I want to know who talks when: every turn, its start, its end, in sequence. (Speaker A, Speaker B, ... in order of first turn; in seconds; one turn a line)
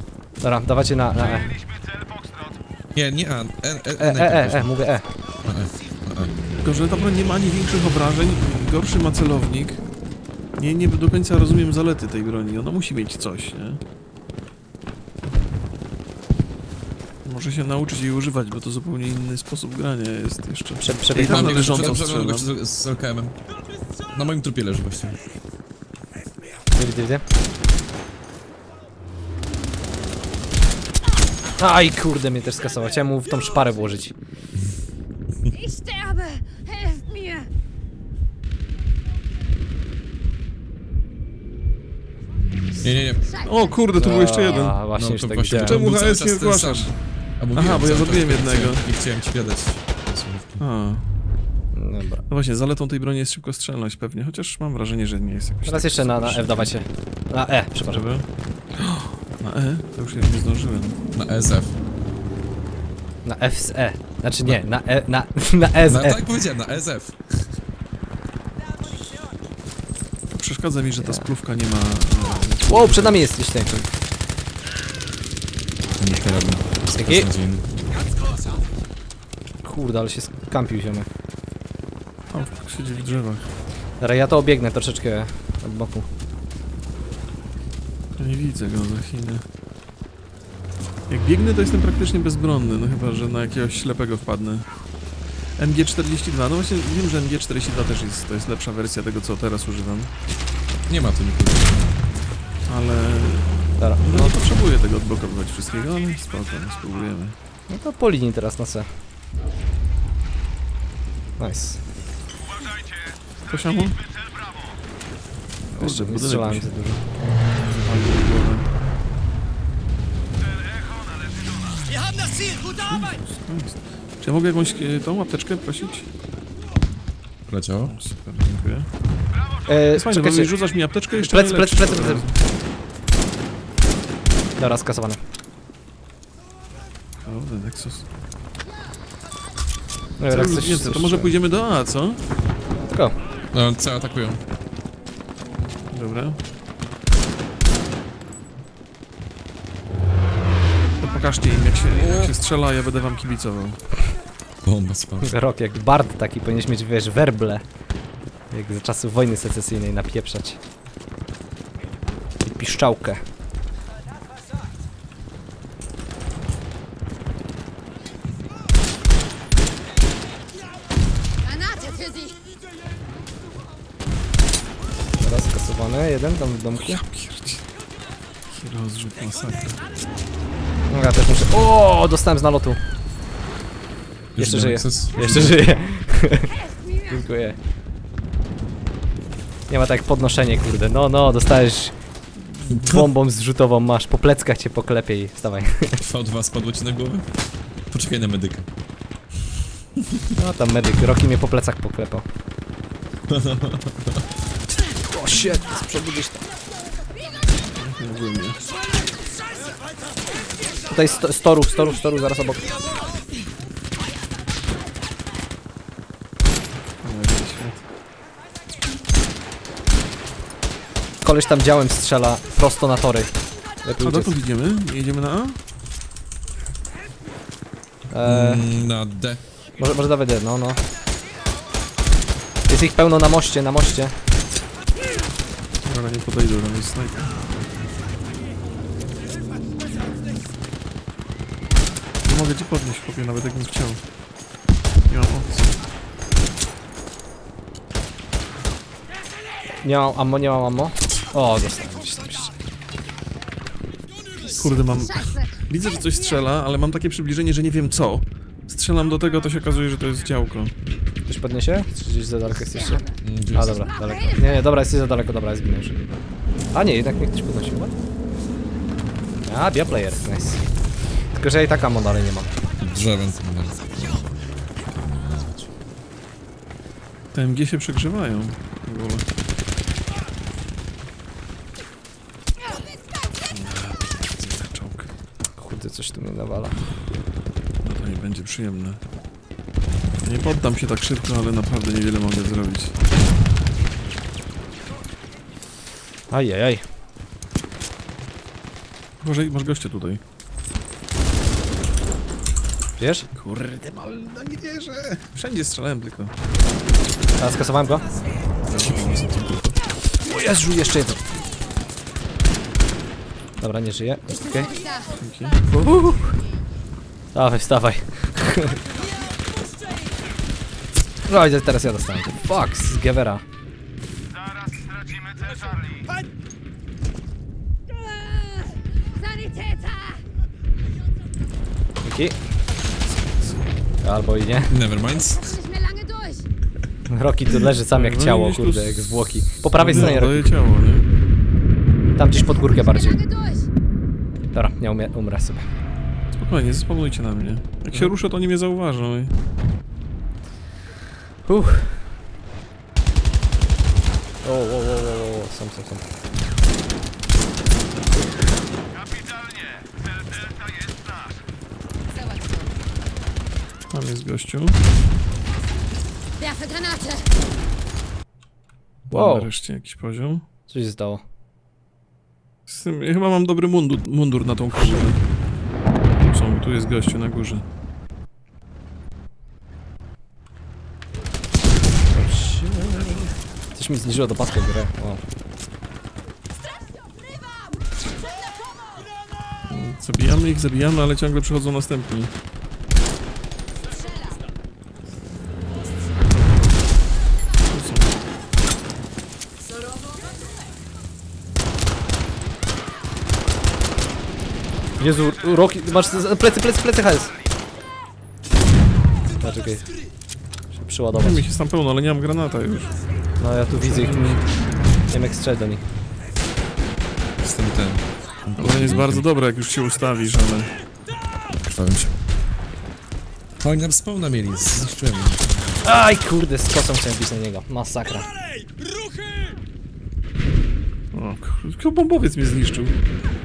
Speaker A: 0.4-1.5
Speaker B: 1.2-1.5
Speaker C: 2.9-4.7
Speaker A: 4.0-5.1
Speaker C: 5.4-6.3
Speaker B: 6.6-9.8
Speaker B: 10.5-13.8
Speaker B: 17.2-22.5
Speaker A: 20.8-22.0
Speaker C: 21.2-23.4
Speaker C: 24.1-25.2
Speaker A: 26.7-27.2
Speaker A: 31.6-34.1
Speaker D: 35.5-37.5
Speaker C: 42.8-43.2
Speaker D: 43.2-44.7
Speaker B: 43.4-44.8
Speaker A: 44.0-45.8
Speaker C: 44.9-50.6
Speaker B: 45.6-46.9
Speaker B: 47.5-48.8
Speaker B: 50.6-51.0
Speaker A: 51.7-52.2
Speaker B: 52.3-56.7
Speaker A: 55.7-58.0
Speaker B: 57.8-61.0
Speaker C: 61.1-61.7
Speaker A: 63.2-66.2
Speaker C: 65.8-67.5
Speaker B: 70.3-73.9
Speaker A: 71.0-71.3
Speaker A: 72.7-73.7
Speaker C: 76.0-77.7
Speaker A: 77.0-77.3
Speaker A: 79.6-81.1
Speaker B: 82.3-83.5
Speaker A: 84.0-86.1
Speaker B: 88.2-89.4
Speaker B: 91.1-94.7
Speaker B: 95.6-100.1
Speaker C: 100.9-101.9
Speaker B: 102.7-107.3
Speaker A: 103.8-104.3
Speaker A: 107.7-108.9
Speaker A: 111.4-111.8
Speaker B: 113.5-114.0
Speaker A: 115.7-117.0
Speaker B: 115.8-116.7
Speaker B: 117.6-118.7
Speaker B: 122.5-126.1
Speaker C: 127.5-128.0
Speaker B: 127.9-128.9
Speaker A: 129.7-130.5
Speaker B: 129.9-132.4
Speaker A: 131.1-132.2
Speaker A: 134.6-135.2
Speaker B: 137.2-138.0
Speaker A: 140.2-141.3
Speaker B: 140.3-142.2
Speaker A: 142.9-143.2
Speaker C: 143.5-144.4
Speaker B: 145.9-146.4
Speaker B: 151.0-153.8
Speaker C: 154.6-155.3
Speaker A: 155.2-157.6
Speaker A: 158.5-160.6
Speaker A: 162.4-163.2
Speaker D: 171.4-172.4
Speaker A: 175.2-177.0
Speaker B: 176.8-177.6
Speaker B: 178.5-179.8
Speaker A: 180.9-182.8
Speaker C: 184.3-185.6
Speaker A: 184.4-186.5
Speaker D: 186.5-187.2
Speaker A: 187.1-187.6
Speaker A: 189.7-196.0
Speaker C: 192.7-193.0
Speaker C: 196.0-197.3
Speaker C: 197.9-198.7
Speaker A: 200.3-202.2
Speaker C: 203.3-204.2
Speaker A: 205.0-206.4
Speaker B: 207.7-208.6
Speaker A: 210.9-212.8
Speaker B: 217.0-217.8
Speaker A: 221.2-223.3
Speaker A: 223.8-224.3
Speaker B: 224.0-225.6
Speaker A: 228.1-228.7
Speaker C: 228.2-229.4
Speaker A: 229.8-230.8
Speaker A: 232.7-234.1
Speaker B: 235.8-237.5
Speaker B: 242.2-244.0
Speaker B: 245.1-245.7
Speaker A: 249.8-252.5
Speaker D: 254.4-255.5
Speaker B: 254.5-260.7
Speaker A: 261.3-265.9
Speaker D: 262.7-264.7
Speaker C: 263.2-263.8
Speaker A: 266.7-267.9
Speaker A: 269.4-270.6
Speaker A: 271.3-272.5
Speaker C: 272.8-275.7
Speaker B: 277.3-279.2
Speaker D: 282.7-282.9
Speaker B: 283.5-285.1
Speaker A: 285.5-286.9
Speaker B: 287.8-289.0
Speaker B: 290.2-292.9
Speaker A: 296.3-296.8
Speaker B: 299.2-300.2
Speaker A: 303.0-303.3
Speaker B: 303.4-306.3
Speaker A: 307.4-308.0
Speaker B: 308.7-311.1
Speaker A: 310.3-311.2
Speaker A: 313.6-314.7
Speaker D: 314.3-315.2
Speaker B: 315.1-315.6
Speaker A: 315.7-316.4
Speaker A: 317.3-318.8
Speaker A: 321.2-323.4
Speaker D: 328.1-330.2
Speaker A: 332.0-332.4
Speaker B: 333.0-333.6
Speaker A: 334.0-334.8
Speaker C: 334.7-335.5
Speaker D: 335.1-336.5
Speaker A: 337.1-340.5
Speaker B: 337.9-341.1
Speaker A: 342.1-343.2
Speaker D: 342.4-343.7
Speaker A: 344.5-345.6
Speaker B: 346.3-349.3
Speaker A: 351.4-352.1
Speaker A: 354.4-356.0
Speaker D: 362.1-362.8
Speaker B: 363.9-364.8
Speaker D: 366.4-367.3
Speaker B: 369.1-370.4
Speaker A: 369.1-369.5
Speaker A: 370.7-371.2
Speaker B: 372.7-375.2
Speaker B: 376.2-377.6
Speaker A: 382.1-385.2
Speaker B: 389.7-392.3
Speaker B: 397.7-398.1
Speaker A: 405.0-407.3
Speaker A: 409.4-409.9
Speaker A: 410.7-411.4
Speaker B: 411.1-412.9
Speaker A: 413.4-414.4
Speaker B: 413.7-414.4
Speaker A: 415.1-415.8
Speaker C: 417.4-419.2
Speaker B: 418.6-420.7
Speaker C: 421.6-422.1
Speaker C: 423.6-425.8
Speaker A: 425.8-428.3
Speaker B: 431.1-432.9